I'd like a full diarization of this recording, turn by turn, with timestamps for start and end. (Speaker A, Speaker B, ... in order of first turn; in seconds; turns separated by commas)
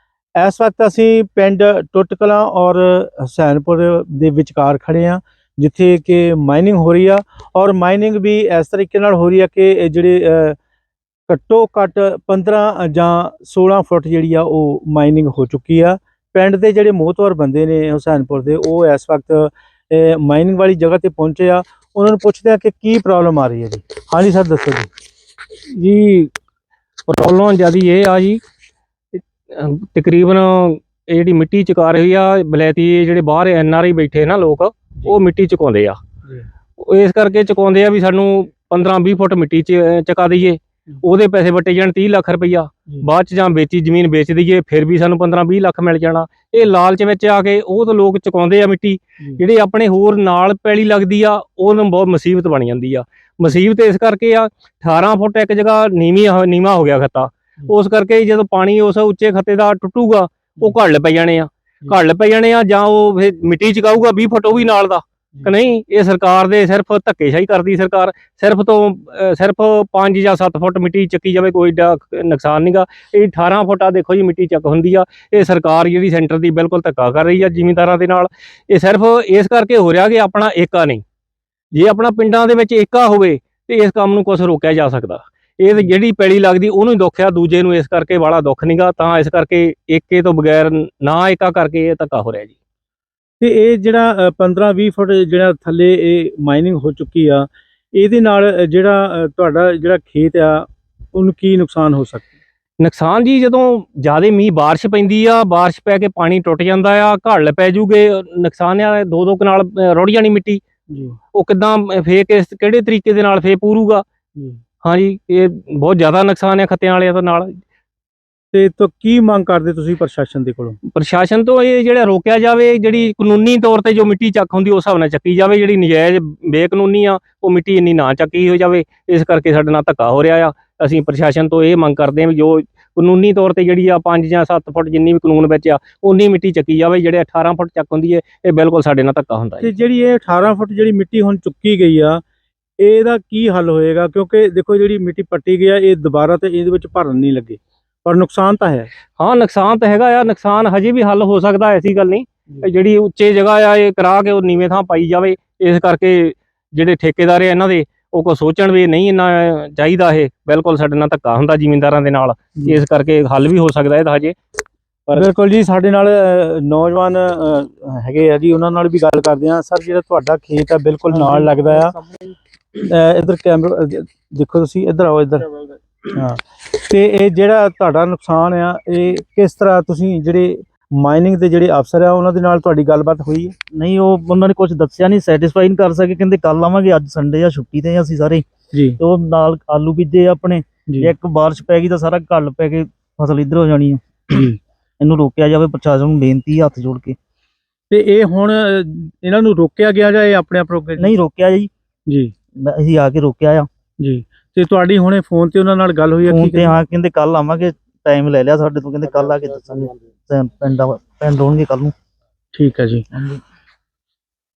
Speaker A: 0.4-10.6, Speaker A: 11.3-24.9, Speaker B: 25.8-26.3, Speaker B: 27.1-28.4, Speaker B: 29.1-36.0, Speaker B: 36.8-81.0, Speaker B: 81.7-92.5, Speaker A: 93.4-102.3, Speaker B: 102.8-110.6, Speaker A: 110.9-111.2, Speaker B: 111.3-114.0, Speaker B: 114.8-117.6, Speaker A: 118.5-120.8, Speaker B: 120.9-139.7, Speaker A: 139.6-142.2, Speaker A: 142.8-148.9, Speaker B: 149.2-164.4, Speaker A: 165.1-171.9, Speaker A: 172.8-175.6, Speaker A: 176.1-183.6, Speaker C: 183.7-188.4, Speaker A: 188.7-189.0, Speaker C: 189.0-194.4, Speaker A: 194.3-194.6, Speaker C: 195.0-197.2, Speaker A: 197.9-201.1, Speaker C: 201.0-201.7, Speaker C: 202.6-203.7, Speaker A: 204.0-206.8, Speaker C: 206.3-211.9, Speaker A: 212.6-213.1, Speaker C: 213.1-213.4